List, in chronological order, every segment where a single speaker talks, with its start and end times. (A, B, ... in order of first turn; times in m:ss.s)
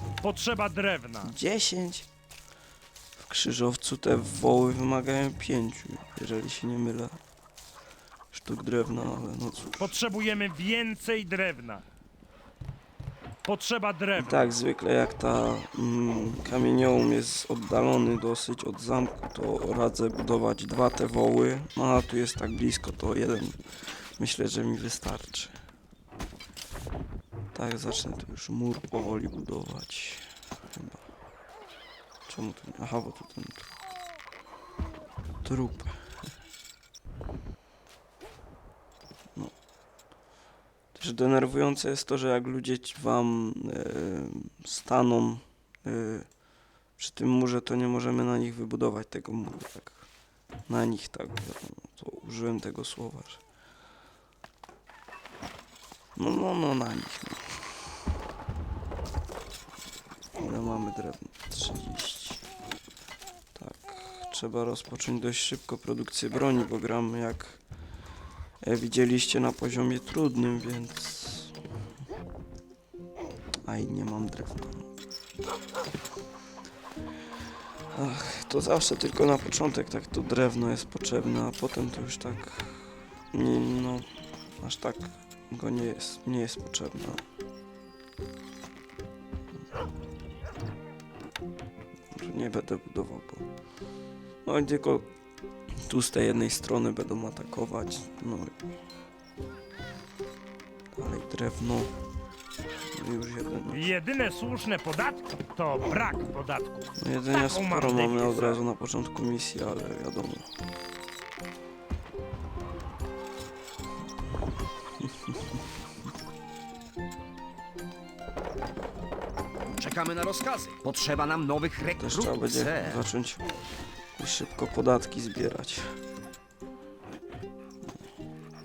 0:00.2-0:01.3 A
0:01.2-0:02.1 B
0:03.2-0:07.2 B
0:08.3-0:09.9 B
0:09.8-0:11.8 A
0:13.4-0:14.5 A
0:14.2-0:23.6 B
0:24.2-0:25.6 B
0:27.5-0:31.0 B
0:32.3-0:33.7 B
0:35.4-0:35.9 B
0:40.9-0:46.3 B
0:47.0-0:50.1 B
0:50.7-0:53.4 B
0:56.1-0:57.5 B
1:00.4-1:02.4 B
1:03.5-1:07.6 B
1:08.6-1:11.5 B
1:13.6-1:14.9 B
1:17.9-1:24.1 B
1:24.6-1:27.2 B
1:32.1-1:33.4 B
1:34.4-1:35.1 B
1:35.8-1:38.6 B
1:40.9-1:41.9 B
1:42.9-1:43.9 B
1:43.7-1:48.6 A
1:47.0-1:50.5 B
1:59.8-2:03.0 C
2:02.0-2:03.4 B
2:04.2-2:05.9 B